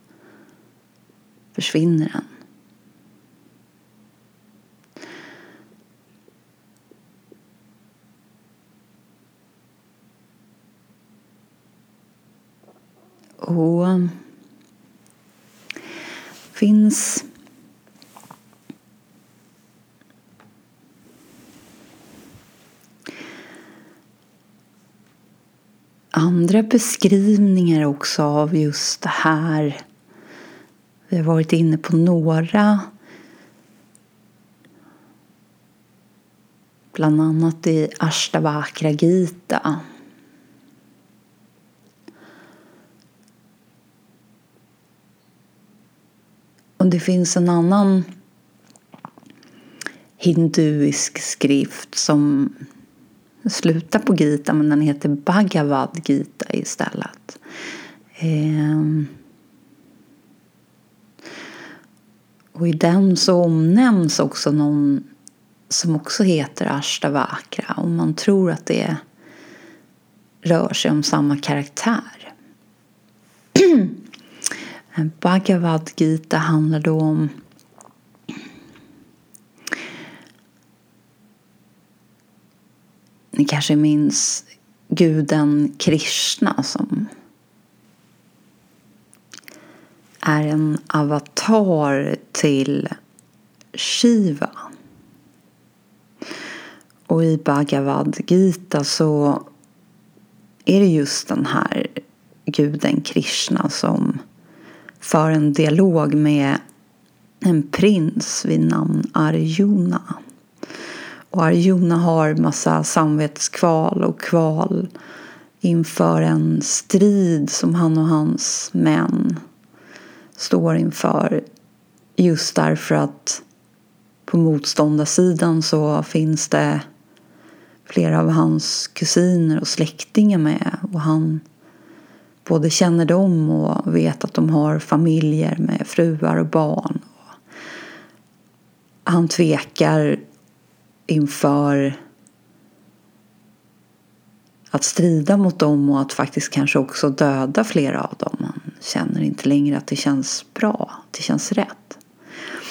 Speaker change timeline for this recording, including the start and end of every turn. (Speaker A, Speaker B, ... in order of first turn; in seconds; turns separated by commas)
Speaker A: 1.6-2.3, Speaker A: 13.4-14.2, Speaker A: 16.5-17.3, Speaker A: 26.1-29.8, Speaker A: 31.1-32.9, Speaker A: 36.9-39.8, Speaker A: 46.8-48.1, Speaker A: 50.2-52.5, Speaker A: 53.5-57.4, Speaker A: 58.2-59.1, Speaker A: 62.5-65.1, Speaker A: 65.7-69.0, Speaker A: 70.4-72.3, Speaker A: 73.5-74.0, Speaker A: 75.0-77.3, Speaker A: 83.3-87.1, Speaker A: 90.2-92.9, Speaker A: 93.7-94.7, Speaker A: 97.1-99.5, Speaker A: 100.7-104.2, Speaker A: 105.0-106.6, Speaker A: 107.4-110.2, Speaker A: 111.3-114.9, Speaker A: 115.6-119.4, Speaker A: 120.4-121.4, Speaker A: 122.2-123.4, Speaker A: 124.3-126.8, Speaker A: 127.9-131.4, Speaker A: 132.4-137.2, Speaker A: 139.1-140.2, Speaker A: 141.1-142.0, Speaker A: 144.7-152.0